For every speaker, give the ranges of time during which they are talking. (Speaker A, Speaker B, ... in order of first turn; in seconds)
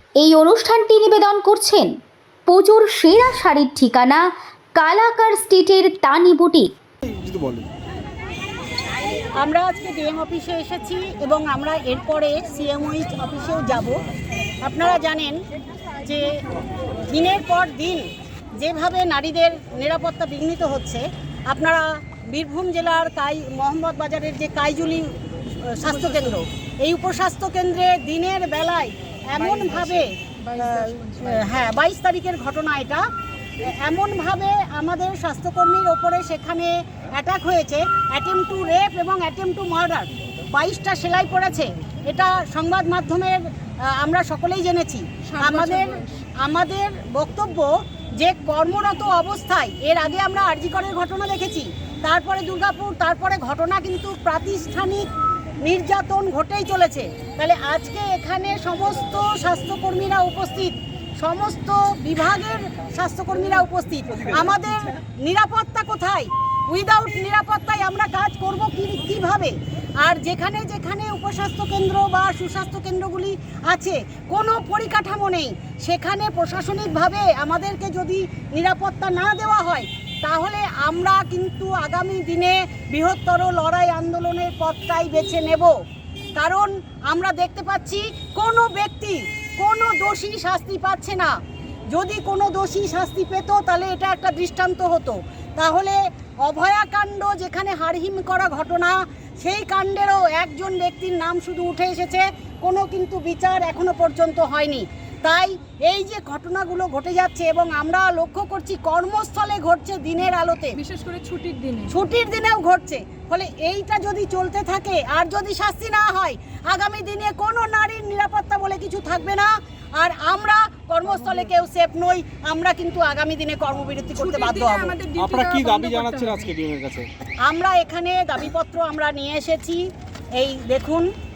Speaker A: 0.2-1.9, 2.5-4.2, 4.8-6.7
Speaker B: 7.0-7.6, 125.2-127.1
Speaker C: 9.4-13.9, 14.6-15.4, 16.0-16.3, 17.1-18.0, 18.6-33.0, 33.6-55.1, 55.6-85.7, 86.3-91.3, 91.9-110.8, 111.9-125.0, 127.4-129.8, 130.4-131.1
Speaker D: 30.4-31.4, 45.3-46.2, 110.8-111.9, 124.2-126.5